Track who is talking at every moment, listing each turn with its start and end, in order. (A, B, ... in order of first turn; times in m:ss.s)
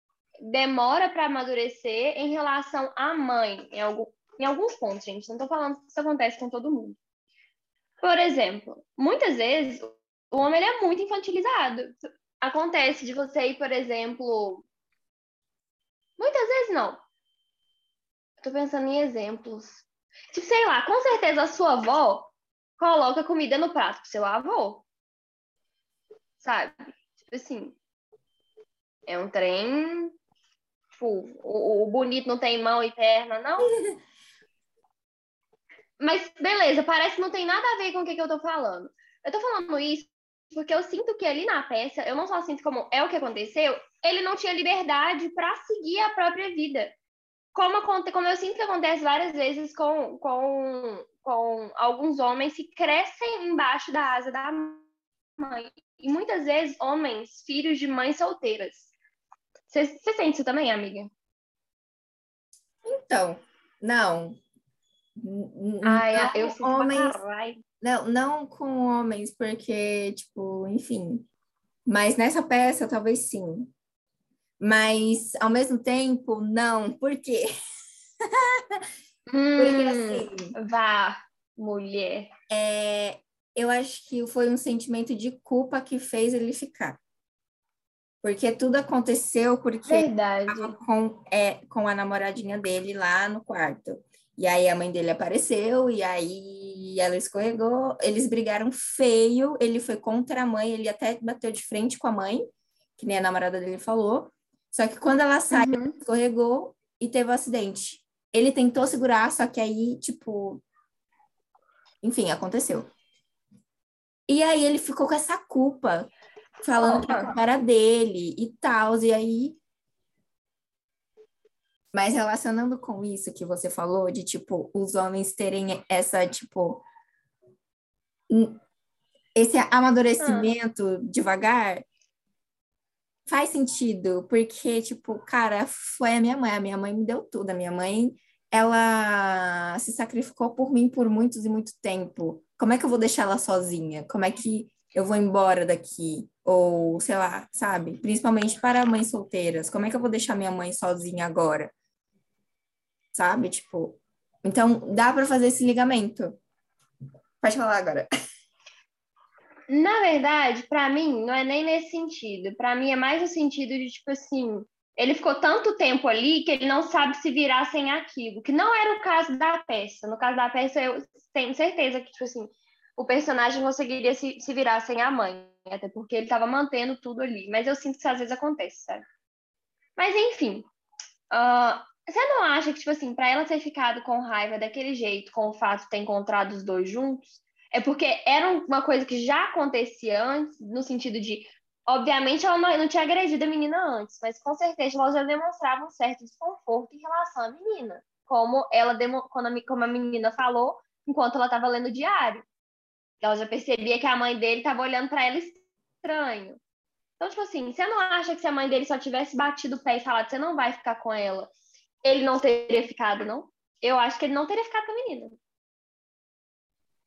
0:00.4-0:07.0 A
0:08.0-0:14.6 A
0:16.2-0:17.0 A
0:18.4-0:24.8 A
0:26.4-0:27.8 A
0:29.1-0:30.1 A
0:31.0-0:33.7 A
0:33.7-0:34.0 B
0:36.0-0:47.0 A
0:47.5-0:54.8 A
0:55.4-0:58.9 A
0:59.7-1:01.1 A
1:02.8-1:04.4 B
1:05.2-1:07.2 B
1:05.8-1:07.6 A
1:07.8-1:11.3 B
1:11.8-1:13.7 B
1:14.6-1:17.5 B
1:18.3-1:18.8 B
1:19.3-1:22.3 A
1:19.6-1:20.6 B
1:22.5-1:27.0 B
1:28.2-1:50.6 B
1:29.9-1:30.8 A
1:45.5-1:46.0 A
1:52.0-1:52.9 B
1:54.3-1:56.1 B
1:56.6-1:59.6 B
1:56.8-1:57.3 A
2:01.9-2:06.8 B
2:08.3-2:08.6 B
2:09.3-2:11.8 B
2:10.2-2:10.5 A
2:13.2-2:31.7 B
2:33.1-2:36.4 B
2:37.4-2:38.1 B
2:39.7-2:59.0 A
3:00.0-3:00.7 A
3:01.3-3:22.4 A
3:23.2-3:26.6 A
3:27.2-3:31.5 A
3:32.0-3:35.4 A